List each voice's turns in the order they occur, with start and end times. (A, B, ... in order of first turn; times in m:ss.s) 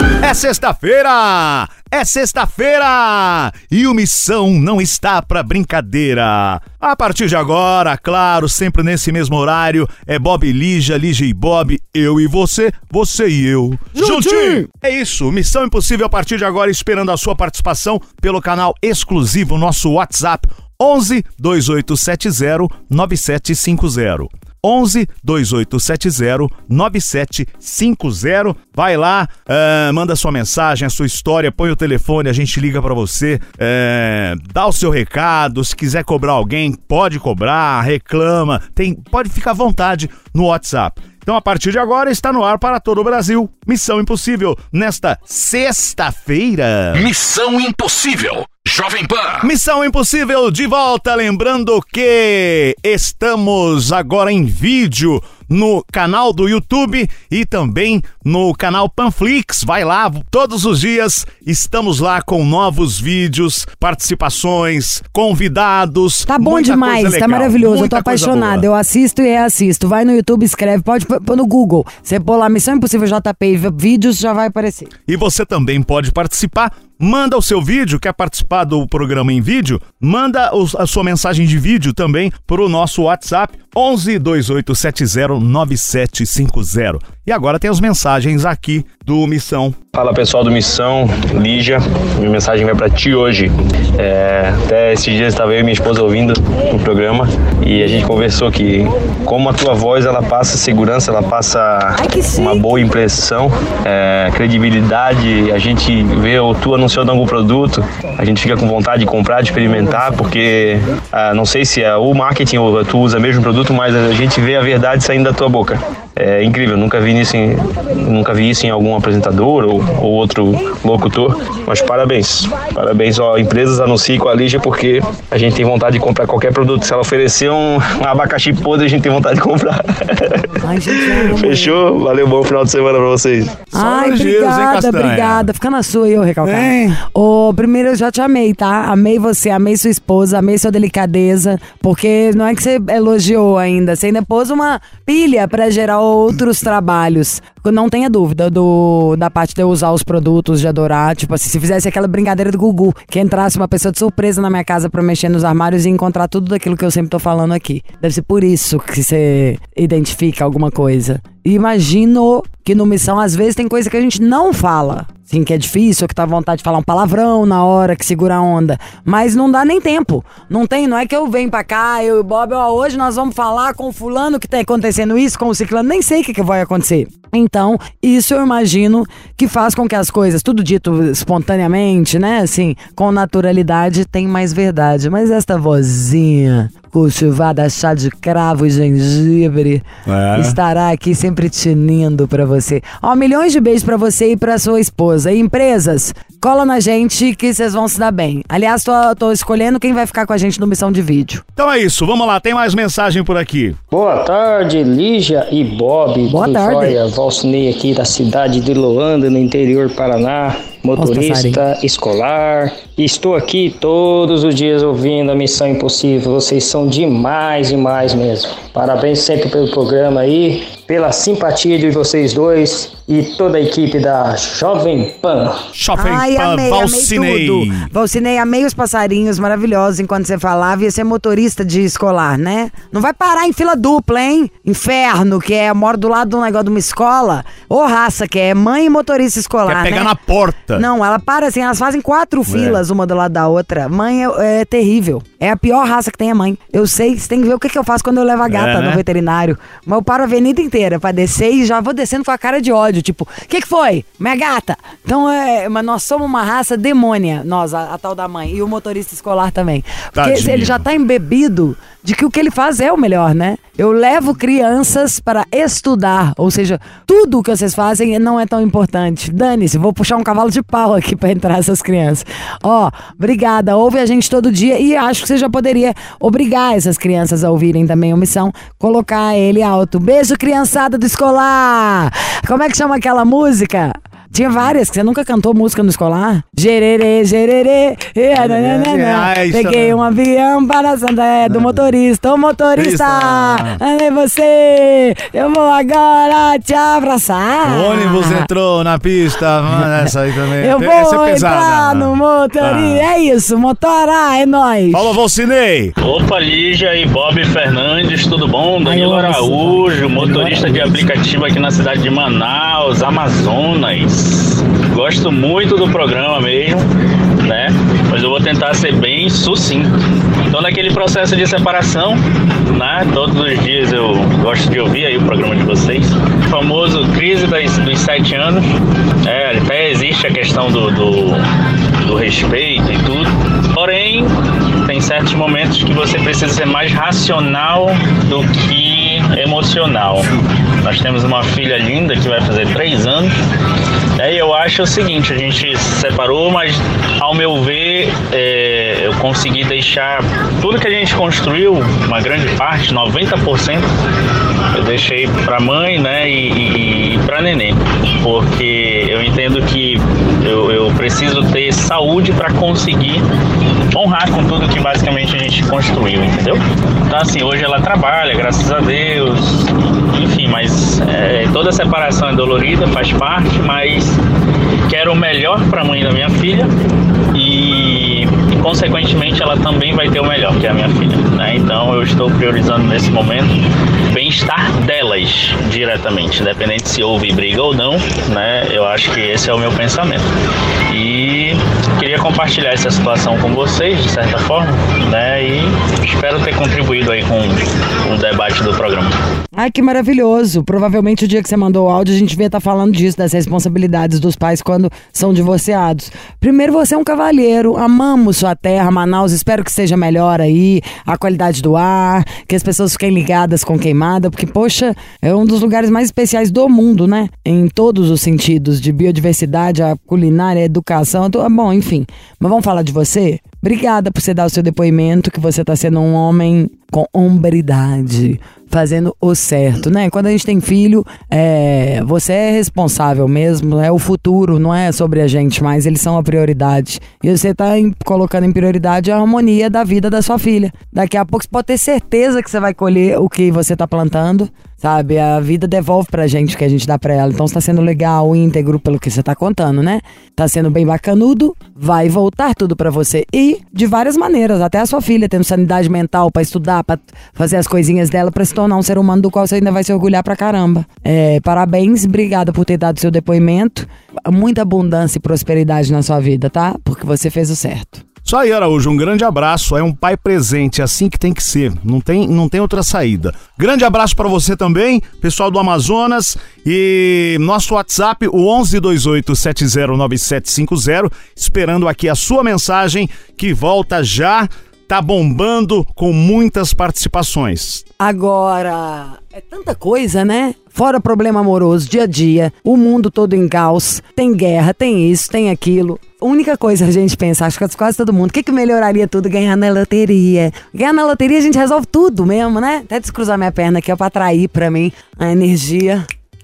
0:00.2-0:47.1 A
0:14.0-0:14.6 B
0:47.0-0:49.5 C
0:49.4-1:08.7 A
1:06.3-1:14.9 B
1:15.1-1:29.8 A
1:29.9-2:10.5 D
1:42.0-1:42.6 B
2:10.6-2:11.8 B
2:11.1-2:13.6 D
2:13.7-3:09.8 B
2:13.7-2:15.5 A
2:16.4-2:17.0 A
3:10.1-3:10.6 A
3:10.4-3:21.4 B
3:21.6-3:23.8 A
3:23.9-3:45.6 E
3:26.3-3:27.0 B
3:31.0-3:31.6 B
3:45.7-3:47.9 A
3:46.0-4:00.1 B
3:59.7-4:00.9 A
4:00.7-4:58.5 B
4:02.5-4:02.8 A
4:08.5-4:09.0 A
4:20.2-4:20.9 A
4:48.3-4:50.0 A
4:51.4-4:51.9 A
4:52.8-4:53.8 A
4:57.6-5:03.1 A
4:59.8-5:05.2 B
5:04.9-5:05.9 A
5:06.0-5:16.9 F
5:08.8-5:11.1 B
5:17.4-5:19.9 F
5:20.5-5:28.6 F
5:29.2-5:31.4 F
5:32.0-5:43.4 F
5:44.2-5:53.9 F
5:54.7-6:03.3 F
6:03.9-6:14.2 F
6:14.9-6:16.7 F
6:17.3-6:23.6 F
6:24.1-6:30.3 F
6:30.9-6:39.2 F
6:39.6-7:48.0 B
7:48.2-8:07.8 A
8:08.0-8:26.1 B